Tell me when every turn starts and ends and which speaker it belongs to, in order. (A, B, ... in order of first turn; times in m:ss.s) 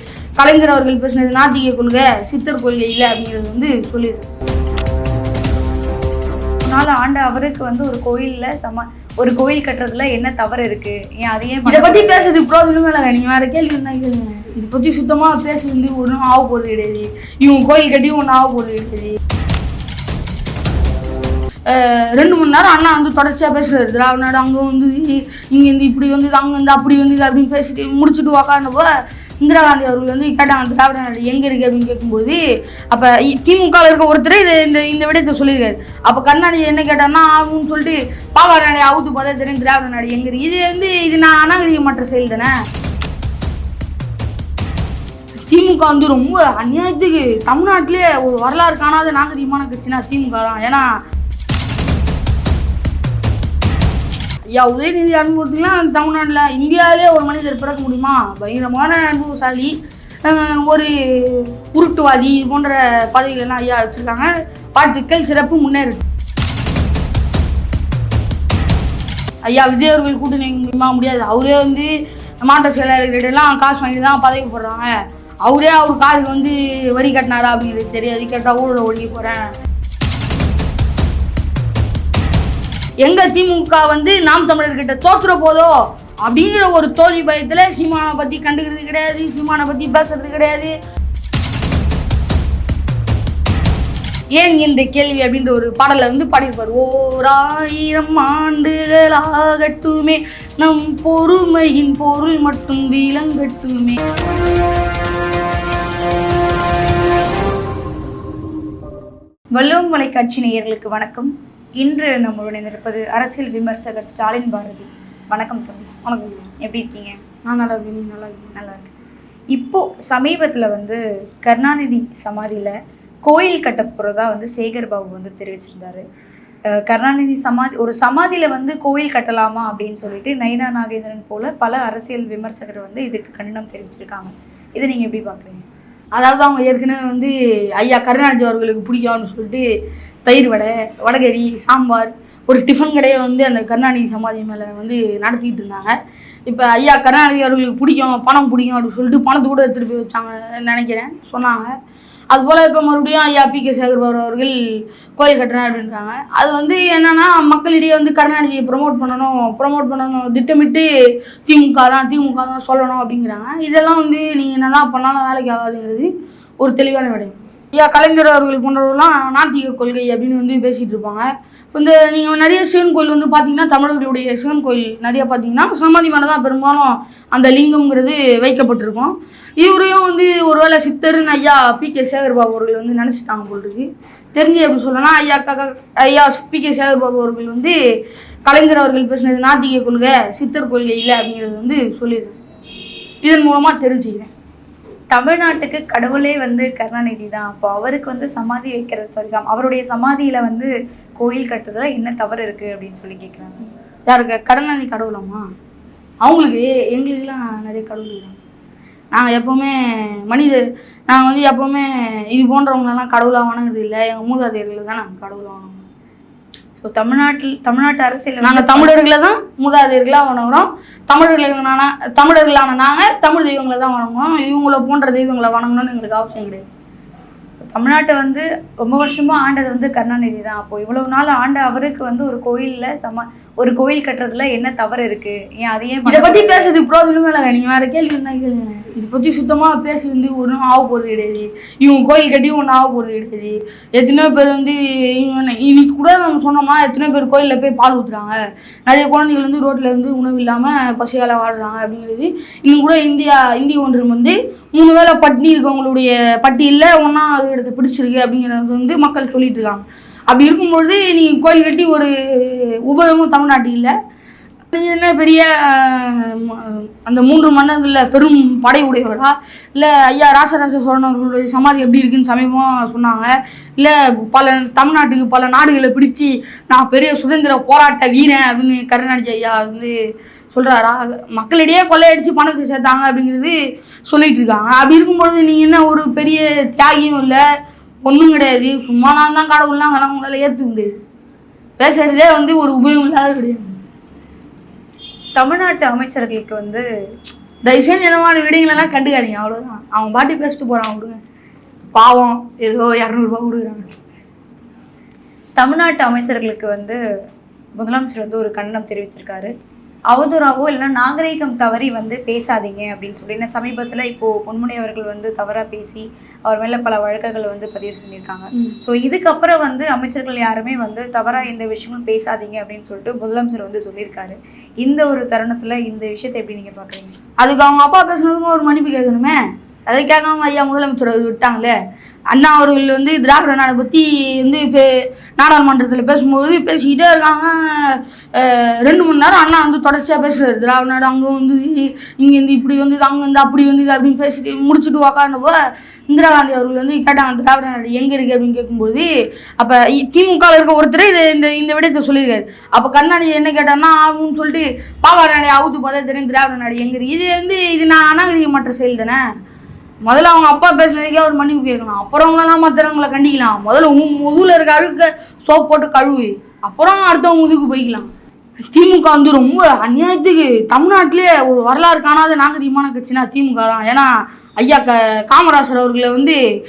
0:00.4-0:04.3 A
0:06.6-0:12.2 B
0:11.7-0:19.2 A
0:21.7-0:28.9 A
0:29.4-0:32.4 A
0:32.9-0:42.5 A
0:45.5-0:50.8 A
0:54.5-0:59.7 A
1:00.2-1:06.0 A
1:09.4-1:11.9 A
1:12.4-1:19.4 A
1:23.0-1:30.7 A
1:34.4-1:44.0 A
1:49.6-1:56.0 B
1:56.0-1:56.5 A
1:56.6-1:57.2 B
1:57.4-1:58.6 A
1:58.6-1:58.9 B
1:59.5-2:02.7 B
2:03.2-2:06.0 B
2:06.7-2:15.6 B
2:16.2-2:19.6 A
2:20.2-2:26.0 A
2:26.5-2:31.7 A
2:32.3-2:34.6 A
2:35.2-2:40.9 A
2:41.5-3:07.8 A
3:08.5-3:12.4 A
3:13.2-3:14.3 A
3:15.1-3:23.7 B
3:24.1-3:25.4 A
3:26.2-3:28.4 A
3:29.1-3:35.8 A
3:36.8-3:38.9 B
3:38.4-3:46.6 A
3:47.7-3:56.7 B
3:56.1-4:23.9 A
4:24.7-4:40.0 A
4:40.5-4:43.6 A
4:44.1-4:47.4 A
4:48.0-4:50.9 A
4:51.8-4:53.7 A
4:55.4-4:56.8 B
4:57.6-5:01.2 A
5:01.9-5:03.9 A
5:05.6-5:07.0 B
5:07.8-5:09.5 B
5:10.1-5:27.2 B
5:27.4-5:31.8 A
5:32.3-5:45.6 A
5:46.1-5:49.1 A
5:49.6-5:59.2 A
6:00.1-6:08.1 A
6:08.6-6:16.4 A